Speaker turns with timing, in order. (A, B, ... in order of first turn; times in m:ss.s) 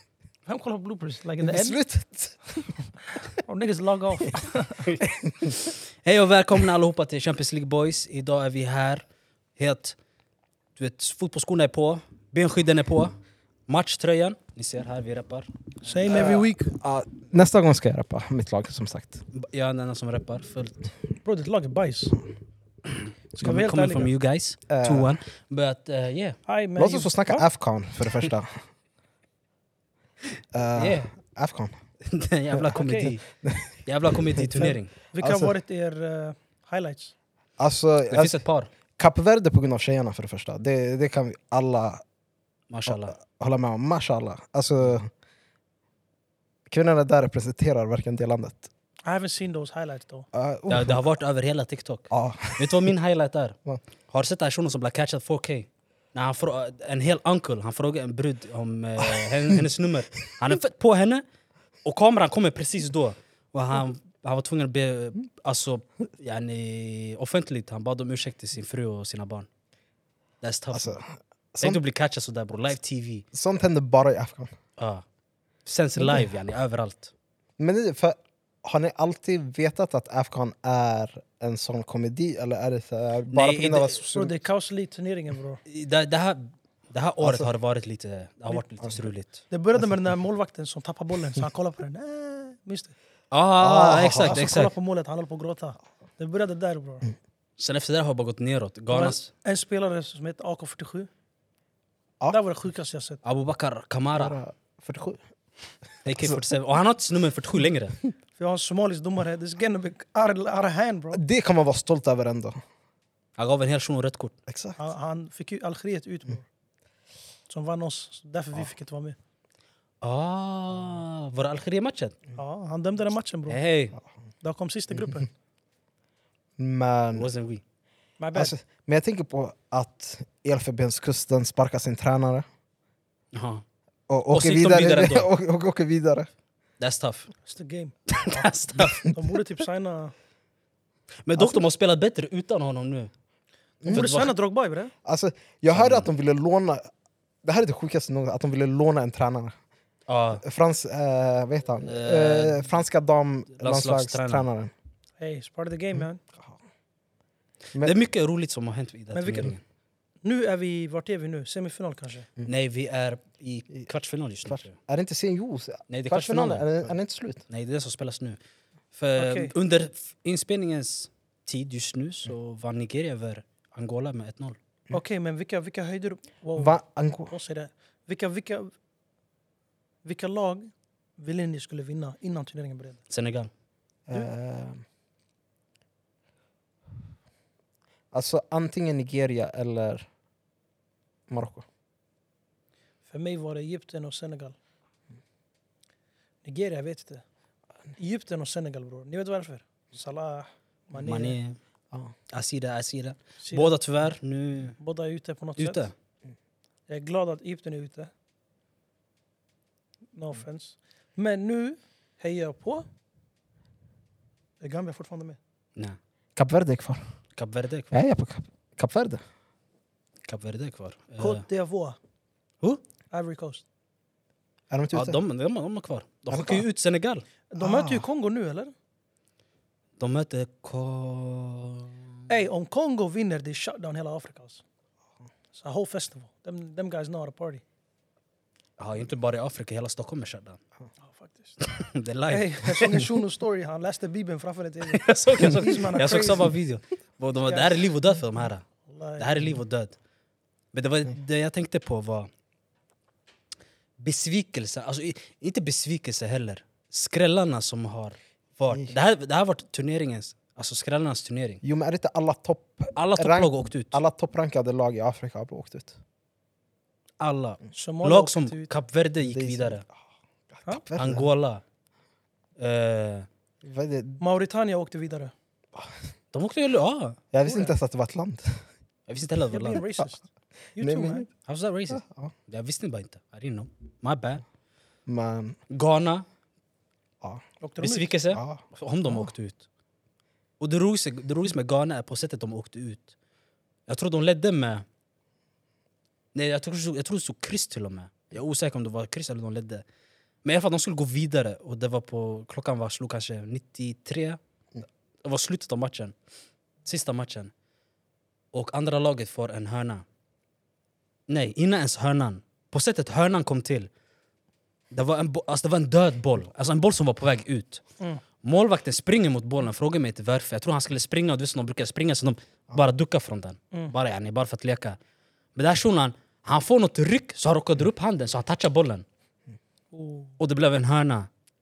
0:00.5-0:01.8 A
0:01.4-0:02.4 B
0:03.1-0:04.9 A
0:04.8-0:09.0 C
0:05.3-0:05.6 B
0:09.6-0:10.0 C
0:10.8-0:13.2 C
0:13.7-0:16.4 C
0:15.8-0:16.8 A
0:16.1-0:19.2 B
0:19.3-0:20.9 C
0:21.2-0:22.2 A
0:23.4-0:24.1 A
0:23.4-0:26.4 C
0:24.7-0:25.2 B
0:26.5-0:27.4 A
0:26.8-0:28.6 B
0:30.5-0:31.8 B
0:30.8-0:31.1 C
0:32.0-0:33.2 C
0:32.7-0:33.2 A
0:33.4-0:35.5 B
0:33.9-0:34.9 C
0:35.1-0:37.1 A
0:37.6-0:38.4 B
0:38.1-0:38.7 C
0:39.0-0:42.0 B
0:42.7-0:43.2 C
0:42.9-0:45.1 B
0:46.7-0:48.7 B
0:49.1-0:50.3 A
0:50.3-0:51.0 B
0:50.7-0:53.6 C
0:52.1-0:52.9 B
0:54.1-1:01.2 C
1:01.8-1:09.5 C
1:10.4-1:11.0 C
1:10.7-1:11.8 B
1:11.6-1:13.3 C
1:13.3-1:14.5 B
1:14.8-1:15.0 C
1:15.6-1:17.1 C
1:17.6-1:24.4 B
1:23.3-1:24.0 C
1:24.1-1:25.6 A
1:25.7-1:29.4 C
1:27.2-1:27.5 B
1:29.5-1:32.9 A
1:33.3-1:34.7 C
1:33.6-1:34.4 B
1:34.2-1:37.0 A
1:37.6-1:39.3 C
1:38.9-1:41.1 A
1:42.3-1:43.2 A
1:43.2-1:44.4 C
1:44.2-1:45.2 B
1:46.0-1:48.0 C
1:48.4-1:51.2 A
1:51.1-1:52.6 B
1:53.4-1:54.4 C
1:54.5-1:54.8 B
1:54.8-1:56.4 A
1:57.5-1:59.2 A
2:00.0-2:02.2 C
2:02.4-2:03.6 A
2:03.5-2:04.0 C
2:04.4-2:05.3 A
2:06.6-2:07.3 B
2:07.2-2:07.6 C
2:08.2-2:08.6 A
2:08.3-2:12.4 B
2:13.3-2:13.6 C
2:14.1-2:16.3 B
2:14.3-2:15.3 C
2:16.8-2:17.3 C
2:17.4-2:20.1 A
2:18.1-2:19.0 C
2:21.3-2:23.1 C
2:23.8-2:24.2 B
2:23.9-2:24.9 A
2:23.9-2:24.3 C
2:25.0-2:26.9 B
2:25.8-2:26.1 C
2:27.4-2:29.5 B
2:30.1-2:30.4 C
2:30.4-2:34.7 B
2:31.8-2:32.7 C
2:33.6-2:34.5 C
2:35.2-2:36.2 A
2:37.8-2:39.6 C
2:39.1-2:39.5 A
2:40.2-2:42.3 A
2:42.5-2:44.8 C
2:44.5-2:47.4 B
2:45.9-2:46.9 C
2:47.5-2:48.4 C
2:48.9-2:54.6 C
2:49.2-2:49.5 A
2:54.9-2:56.8 A
2:56.6-2:57.3 B
2:57.3-2:58.7 A
3:00.0-3:03.0 A
3:03.1-3:03.5 C
3:04.1-3:04.8 B
3:08.1-3:10.1 B
3:11.3-3:11.6 B
3:13.1-3:14.6 A
3:16.4-3:17.2 A
3:18.0-3:21.4 A
3:21.0-3:21.6 C
3:22.3-3:24.8 C
3:23.4-3:23.7 A
3:24.8-3:25.8 A
3:25.6-3:25.9 C
3:26.9-3:28.1 A
3:30.2-3:32.9 A
3:34.6-3:35.4 A
3:36.4-3:37.0 B
3:37.4-3:37.9 C
3:37.9-3:39.2 B
3:40.3-3:41.4 C
3:41.2-3:42.0 A
3:43.1-3:43.6 A
3:44.7-3:45.2 B
3:44.9-3:47.2 C
3:46.3-3:46.6 B
3:47.5-3:48.7 A
3:47.6-3:48.0 B
3:50.0-3:52.2 C
3:52.3-3:54.6 A
3:55.5-3:57.6 A
3:58.8-4:00.6 C
4:01.1-4:01.6 A
4:01.6-4:03.1 C
4:02.3-4:06.5 A
4:04.9-4:08.7 C
4:07.5-4:07.8 A
4:08.9-4:09.5 A
4:09.2-4:10.0 C
4:10.7-4:12.3 C
4:14.0-4:21.6 C
4:21.6-4:26.0 B
4:23.0-4:24.0 C
4:27.2-4:29.8 C
4:27.7-4:28.7 A
4:29.2-4:29.9 B
4:30.5-4:31.3 B
4:31.0-4:31.6 C
4:32.6-4:33.3 C
4:33.6-4:34.2 B
4:34.2-4:35.3 A
4:36.3-4:37.2 C
4:37.3-4:38.6 B
4:37.4-4:37.7 A
4:39.1-4:39.8 C
4:39.5-4:40.2 A
4:40.8-4:41.3 A
4:40.8-4:41.3 B
4:41.4-4:44.4 C
4:41.9-4:42.3 B
4:45.1-4:45.6 B
4:45.7-4:46.3 C
4:47.6-4:48.1 A
4:47.8-4:49.6 C
4:48.3-4:48.6 B
4:50.6-4:53.2 C
4:53.9-4:54.9 C
4:56.3-4:59.8 C
5:00.4-5:04.4 C
5:05.2-5:06.2 C
5:06.8-5:07.5 C
5:08.5-5:10.0 C
5:11.3-5:13.9 C
5:14.9-5:17.8 C
5:18.4-5:25.0 C
5:25.6-5:29.0 C
5:29.9-5:30.4 A
5:30.4-5:31.3 C